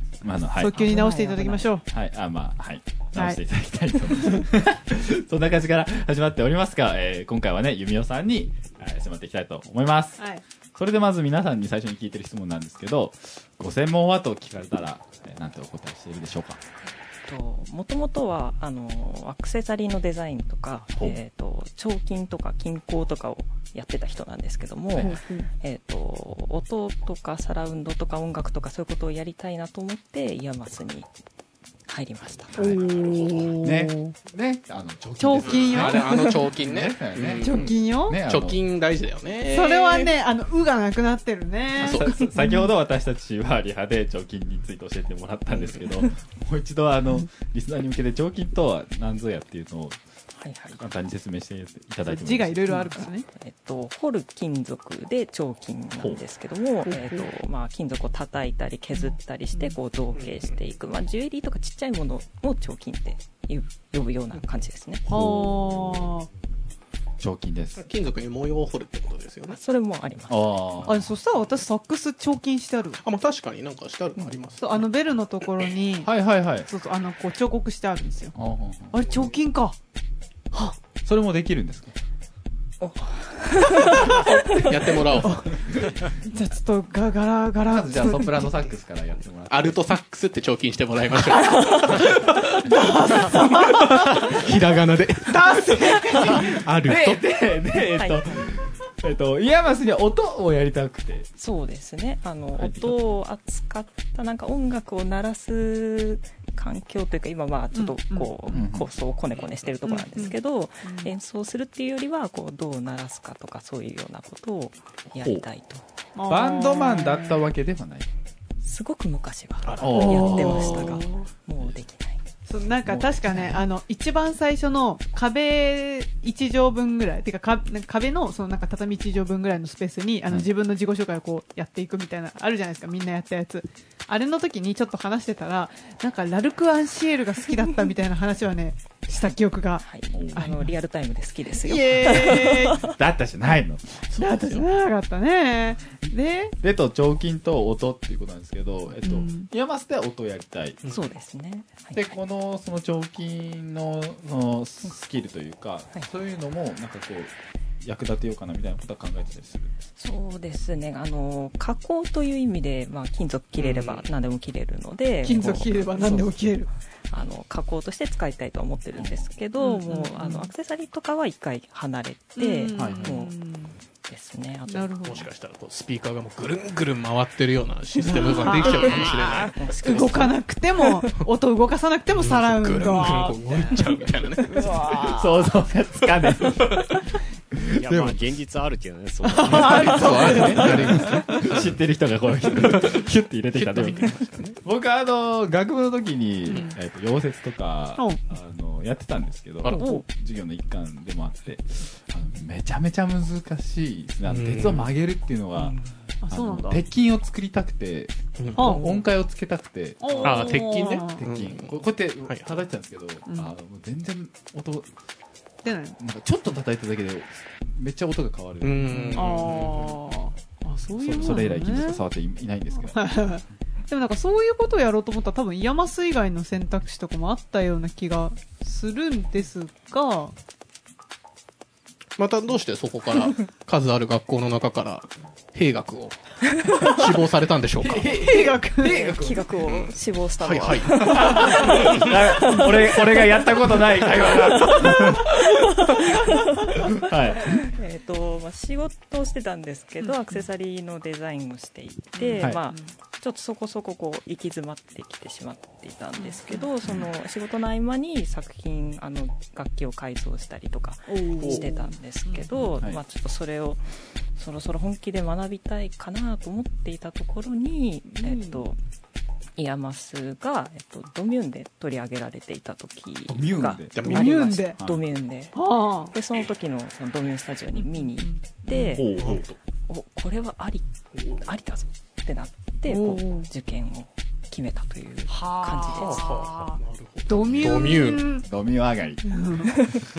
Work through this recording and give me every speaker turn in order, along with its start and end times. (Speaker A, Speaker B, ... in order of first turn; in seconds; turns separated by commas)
Speaker A: 0.2-0.8, Speaker B: 0.5-1.8, Speaker C: 0.7-1.7, Speaker A: 1.9-10.2, Speaker A: 10.7-16.6, Speaker C: 16.8-31.1, Speaker B: 25.0-25.5, Speaker C: 31.9-32.6, Speaker B: 32.6-34.1, Speaker D: 32.6-33.5, Speaker A: 33.6-38.6, Speaker B: 35.2-36.3, Speaker D: 35.5-40.1, Speaker B: 37.4-38.2, Speaker B: 39.5-42.6, Speaker D: 41.8-42.1, Speaker A: 41.8-50.0, Speaker C: 50.4-50.8, Speaker A: 50.8-52.7, Speaker B: 52.0-53.3, Speaker C: 52.7-65.0, Speaker B: 56.9-57.2, Speaker B: 58.9-59.7, Speaker D: 60.2-60.5, Speaker A: 65.1-66.1, Speaker B: 65.1-66.3, Speaker A: 67.2-67.8, Speaker D: 67.8-69.6, Speaker C: 69.5-70.5, Speaker A: 70.3-71.1, Speaker B: 70.8-73.0, Speaker D: 73.0-74.8, Speaker B: 74.6-76.1, Speaker A: 76.0-76.7, Speaker B: 76.7-78.3, Speaker A: 78.3-79.0, Speaker B: 78.9-79.8, Speaker A: 81.0-81.9, Speaker C: 82.8-84.3, Speaker B: 83.9-84.3, Speaker D: 84.5-85.4, Speaker B: 85.1-85.6, Speaker A: 85.5-86.0, Speaker B: 86.2-88.5, Speaker A: 87.7-89.9, Speaker D: 89.5-92.6, Speaker B: 91.5-92.0, Speaker B: 92.6-94.4, Speaker D: 93.3-97.2, Speaker B: 95.2-96.6, Speaker A: 96.8-101.3, Speaker C: 97.9-98.2, Speaker C: 101.4-115.8, Speaker A: 102.6-103.0, Speaker B: 107.7-108.3, Speaker A: 108.5-108.9, Speaker B: 109.8-111.1, Speaker A: 115.2-115.4, Speaker B: 116.2-117.4, Speaker A: 116.3-118.1, Speaker C: 118.6-122.2, Speaker D: 119.6-120.7, Speaker A: 119.8-121.0, Speaker B: 119.9-121.2, Speaker B: 122.5-139.8, Speaker A: 122.8-123.6, Speaker C: 139.8-142.9, Speaker A: 140.1-140.5, Speaker B: 140.3-140.7, Speaker B: 141.6-142.9, Speaker A: 142.2-144.1, Speaker D: 144.1-144.7, Speaker B: 144.2-146.6, Speaker A: 146.6-150.8, Speaker B: 149.0-149.5, Speaker D: 150.8-151.1, Speaker C: 150.9-152.1, Speaker A: 151.9-159.7, Speaker C: 160.0-166.4, Speaker D: 163.6-164.1, Speaker B: 165.2-166.7, Speaker C: 167.1-173.4, Speaker B: 169.6-170.5, Speaker B: 172.4-173.8, Speaker A: 172.8-173.1, Speaker C: 174.1-174.9, Speaker B: 174.7-175.3, Speaker D: 175.0-180.0, Speaker B: 178.0-179.1, Speaker C: 178.6-181.0, Speaker B: 179.8-183.8, Speaker D: 182.1-184.5, Speaker B: 184.4-185.2, Speaker C: 184.6-185.1, Speaker A: 184.9-186.9, Speaker A: 187.7-188.2, Speaker E: 187.7-191.1, Speaker B: 189.3-191.5, Speaker D: 189.6-191.7, Speaker A: 190.3-194.1, Speaker D: 192.6-194.6, Speaker A: 194.6-205.8, Speaker B: 196.5-196.7, Speaker D: 199.6-200.0, Speaker B: 199.7-200.0, Speaker D: 204.2-204.9, Speaker C: 205.6-205.9, Speaker B: 206.2-206.8, Speaker A: 206.3-214.9, Speaker D: 208.4-209.0, Speaker B: 208.6-208.9, Speaker B: 210.0-211.2, Speaker D: 210.2-212.5, Speaker B: 215.6-216.0, Speaker A: 216.0-219.8, Speaker D: 218.6-220.0, Speaker B: 219.1-222.0, Speaker A: 220.9-223.1, Speaker B: 222.9-230.3, Speaker D: 232.2-236.2, Speaker C: 236.6-237.0, Speaker D: 236.8-238.1, Speaker A: 237.8-239.5, Speaker B: 238.1-239.2, Speaker C: 238.8-242.1, Speaker D: 239.6-242.1, Speaker A: 241.0-245.4, Speaker B: 241.1-241.9, Speaker B: 244.9-245.2, Speaker C: 245.3-246.7, Speaker A: 246.8-247.7, Speaker C: 247.4-268.8, Speaker B: 252.1-252.9, Speaker B: 256.2-256.7, Speaker B: 261.1-262.8, Speaker B: 268.1-268.6, Speaker C: 269.6-279.1, Speaker A: 273.3-275.0, Speaker D: 273.9-274.5, Speaker B: 274.1-274.8, Speaker B: 275.5-276.1, Speaker B: 277.8-279.1, Speaker A: 278.7-279.4, Speaker D: 279.2-279.6, Speaker C: 279.9-286.2, Speaker D: 281.1-281.4, Speaker B: 282.9-283.5, Speaker B: 285.3-288.4, Speaker D: 285.9-288.2, Speaker A: 287.4-289.2, Speaker B: 289.2-289.7